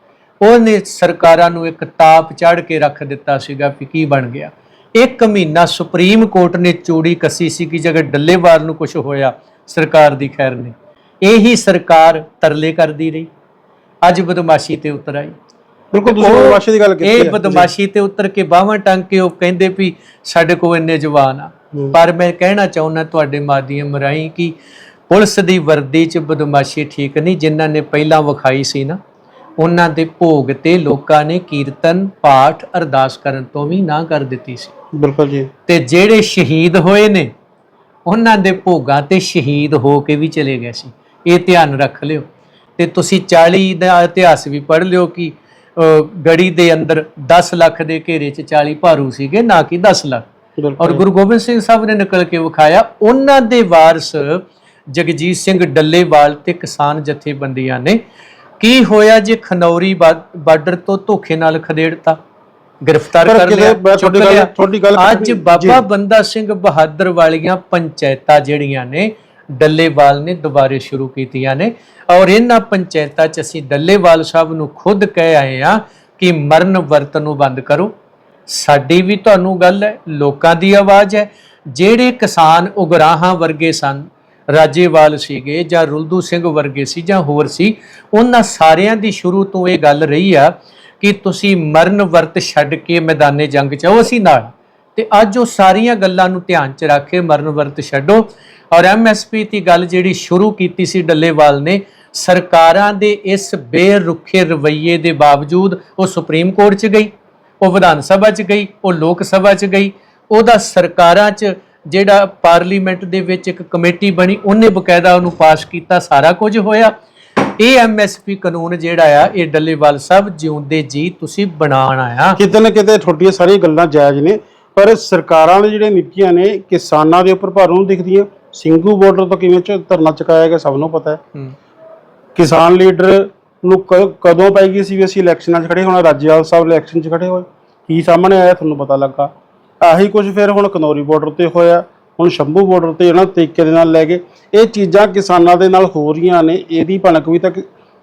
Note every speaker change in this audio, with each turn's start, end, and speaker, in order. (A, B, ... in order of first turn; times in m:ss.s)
0:00.4-0:13.3 A
0:14.0-0:15.3 A
0:15.9-0:17.7 B
0:16.1-0:24.5 A
0:25.1-0:29.0 A
0:29.6-0:34.7 A
0:34.9-0:35.5 B
0:35.7-0:37.3 A
0:38.0-0:42.2 A
0:42.8-0:50.3 A
0:50.6-0:51.0 B
0:50.8-0:58.0 A
0:58.6-1:02.2 A
1:02.8-1:17.9 A
1:03.2-1:05.8 B
1:18.5-2:02.4 A
2:02.4-2:11.2 B
2:12.4-2:19.3 B
2:19.8-2:27.6 B